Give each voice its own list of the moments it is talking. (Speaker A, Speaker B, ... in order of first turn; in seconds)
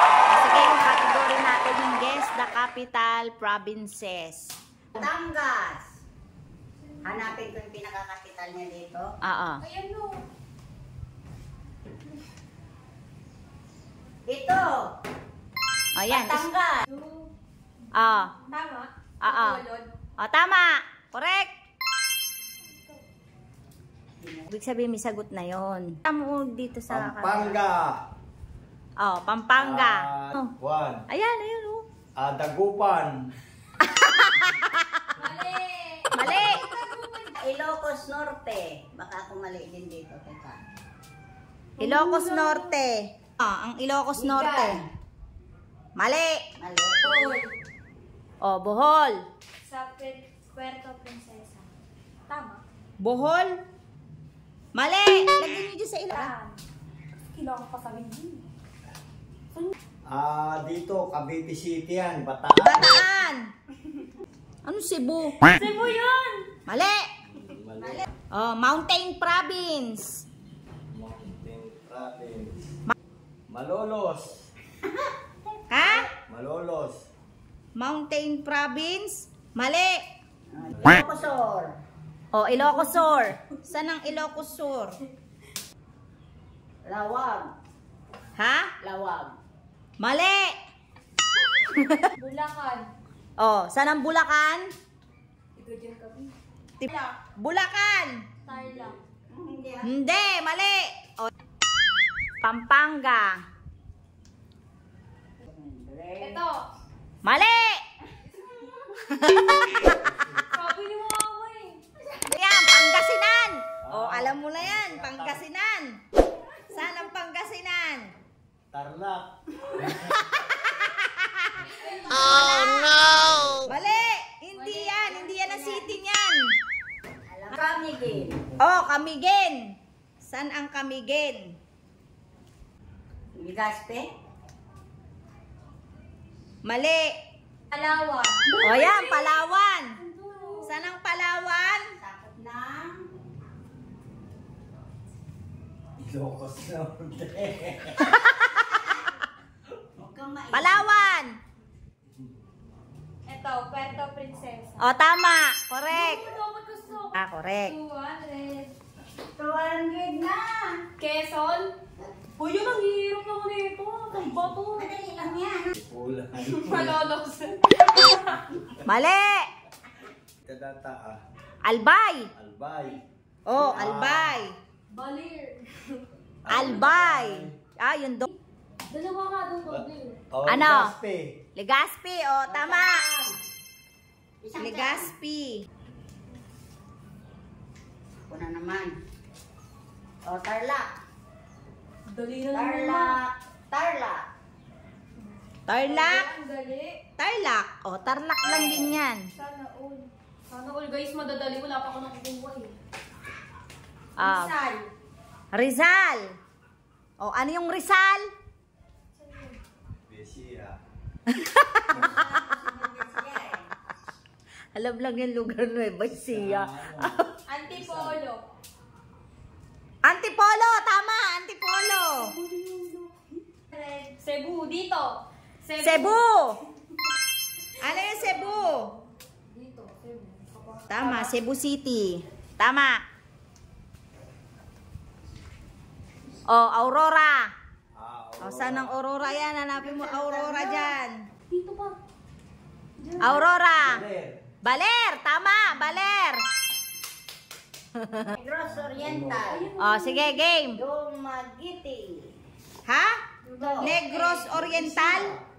Speaker A: 0.3-4.5, 9.2-9.6, 15.9-16.5, 17.9-18.3, 19.2-19.6, 20.2-21.5, 24.5-27.6, 29.0-30.5, 31.1-31.8, 33.8-34.8, 36.1-36.6, 41.8-44.8, 46.0-46.4, 48.4-49.1, 53.0-53.5, 54.7-56.3, 62.6-63.5, 64.6-65.5, 66.7-67.0, 68.3-70.2, 75.7-76.0, 77.8-80.0, 82.3-85.0, 88.4-88.7, 90.0-90.5, 91.7-92.0, 93.4-94.6, 96.8-98.1, 99.8-101.3, 102.4-103.4, 107.2-107.8, 109.1-110.0, 112.3-116.0, 116.7-118.1, 120.1-122.9, 123.6-126.5, 128.6-131.6, 136.6-137.1, 138.6-139.9, 140.6-141.8, 148.0-148.9, 150.5-151.3, 154.8-156.2, 157.1-157.7, 168.8-169.4, 171.6-172.3, 173.5-174.5, 176.5-178.3, 180.4-180.9, 181.6-183.0, 184.6-185.7, 195.7-196.3, 197.2-199.3, 204.2-204.5, 205.5-206.3, 207.2-208.2, 211.3-212.2, 214.7-217.3, 220.0-222.3, 225.8-226.6, 227.8-228.9, 230.9-233.0, 236.5-237.5, 238.4-241.2, 243.2-244.0, 244.6-246.4, 248.0-248.3, 249.8-250.8, 252.9-253.2, 253.8-255.3
Speaker B: 4.9-5.8, 7.0-9.1, 14.3-14.7, 16.1-16.8, 24.2-24.5, 37.4-40.6, 44.1-44.8, 46.6-47.3, 67.8-68.0, 75.5-76.1, 80.5-81.7, 86.8-87.5, 88.8-89.3, 98.5-99.9, 105.4-106.4, 127.3-128.4, 133.3-134.1, 142.0-143.0, 150.0-151.1, 159.3-160.8, 164.7-165.7, 182.4-183.3, 184.4-185.1, 188.3-188.9, 190.2-190.9, 192.5-194.2, 198.4-199.0, 212.5-213.7, 239.7-240.9, 248.3-249.7, 250.7-252.3, 253.6-253.9
Speaker C: 9.6-10.2, 16.8-17.3, 18.4-19.9, 22.6-23.0, 35.2-37.3, 41.8-42.7, 47.0-47.5, 49.6-51.7, 52.3-52.6, 56.1-56.6, 57.3-58.4, 65.4-66.5, 92.2-92.9, 95.5-96.3, 96.9-97.1, 98.5-99.0, 106.2-106.6, 108.3-108.8, 110.5-111.8, 121.7-123.3, 124.5-125.8, 137.7-139.4, 139.9-140.7, 153.2-154.8, 155.9-158.7, 161.0-161.7, 162.3-164.9, 166.4-168.4, 174.9-176.0, 178.9-180.2, 192.1-193.2, 195.2-197.0, 199.3-202.8, 204.2-204.9, 209.1-209.6, 212.0-212.6, 217.5-218.5, 222.1-226.2, 227.8-231.3, 241.5-241.9, 243.0-243.4, 249.4-250.4, 253.4-254.7
Speaker D: 26.9-28.0, 29.5-31.0, 32.2-33.2, 60.1-63.0, 67.2-68.0, 70.9-72.7, 73.5-74.5, 76.3-77.1, 80.7-81.2, 110.0-110.4, 113.8-115.4, 118.7-119.3, 119.8-120.2, 146.0-148.0, 165.7-167.1, 170.4-171.2, 172.3-173.0, 173.5-174.4, 176.4-177.6, 179.7-181.4, 210.1-210.8, 216.2-218.2, 237.9-239.0, 243.8-244.4, 248.6-249.5, 254.5-255.4